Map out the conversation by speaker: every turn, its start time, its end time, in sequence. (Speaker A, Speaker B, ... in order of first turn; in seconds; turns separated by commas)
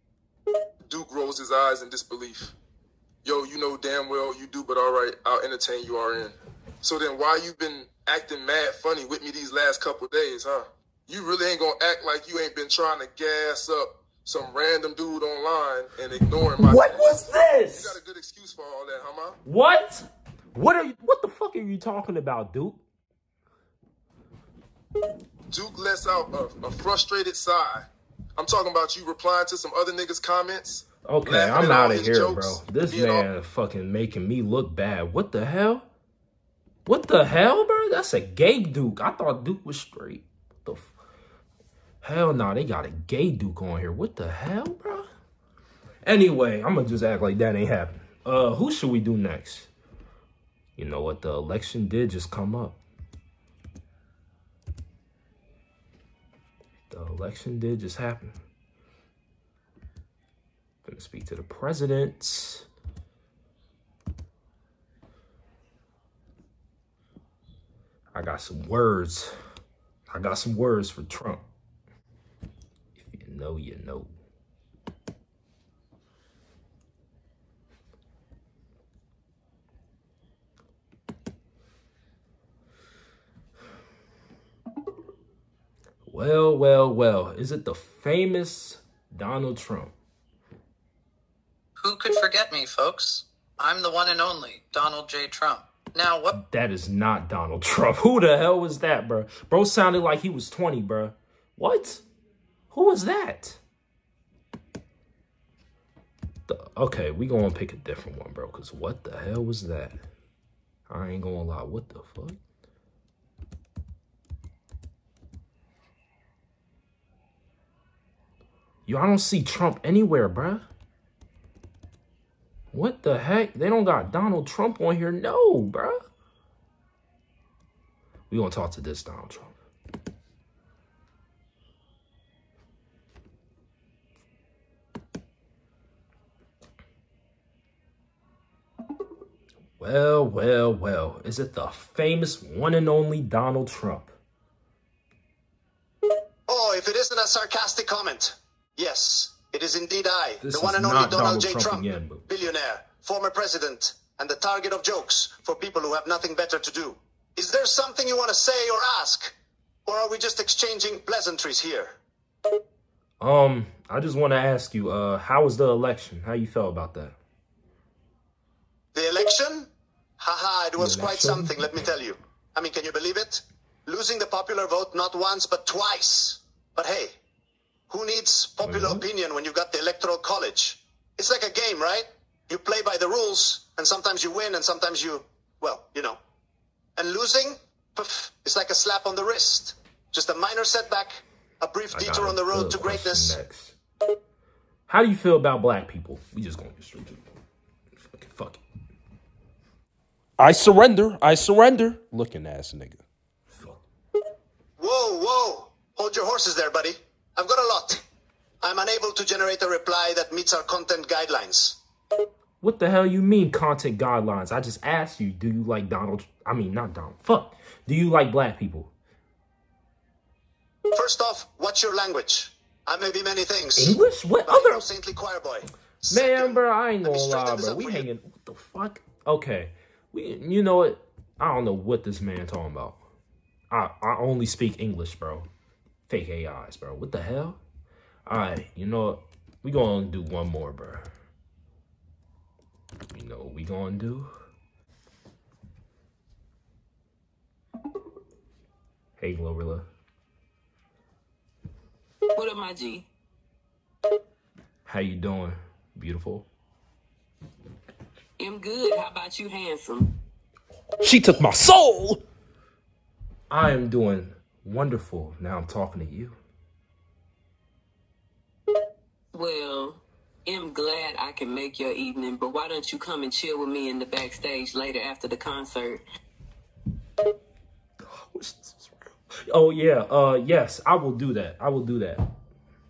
Speaker A: 0.9-2.5, Speaker A: 3.2-19.4, Speaker B: 16.6-18.0, Speaker B: 19.4-22.8, Speaker A: 25.5-33.3, Speaker B: 31.1-35.9, Speaker B: 36.9-40.9, Speaker B: 42.0-45.1, Speaker B: 46.0-49.7, Speaker B: 50.8-52.8, Speaker B: 56.9-58.4, Speaker B: 60.9-62.7, Speaker B: 68.1-69.3, Speaker B: 70.1-71.5, Speaker B: 73.0-74.1, Speaker B: 86.1-89.9, Speaker C: 91.8-96.4, Speaker B: 96.3-102.0, Speaker B: 102.7-103.6, Speaker B: 106.5-110.0, Speaker B: 110.9-112.4, Speaker B: 118.9-120.7, Speaker B: 122.7-126.0, Speaker B: 128.3-129.6, Speaker B: 139.8-144.1, Speaker D: 146.5-159.3, Speaker B: 150.4-152.3, Speaker D: 159.9-162.0, Speaker B: 163.2-167.2, Speaker D: 168.9-177.1, Speaker B: 170.8-171.9, Speaker D: 177.9-186.2, Speaker B: 178.6-179.1, Speaker D: 187.0-193.4, Speaker B: 191.9-193.8, Speaker B: 194.9-197.2, Speaker B: 198.0-198.6, Speaker B: 200.4-203.0, Speaker B: 203.5-203.8, Speaker D: 204.8-208.0, Speaker D: 208.6-211.8, Speaker B: 212.6-218.9, Speaker D: 220.9-228.1, Speaker B: 223.8-224.9, Speaker B: 226.1-233.0, Speaker B: 233.7-235.5, Speaker B: 236.1-237.6, Speaker B: 238.3-241.1, Speaker B: 243.1-244.3, Speaker B: 249.2-249.9, Speaker E: 252.3-253.1, Speaker B: 254.9-256.5, Speaker E: 258.4-260.1, Speaker B: 261.0-262.2, Speaker B: 263.5-266.4, Speaker E: 269.3-276.0, Speaker B: 278.0-282.3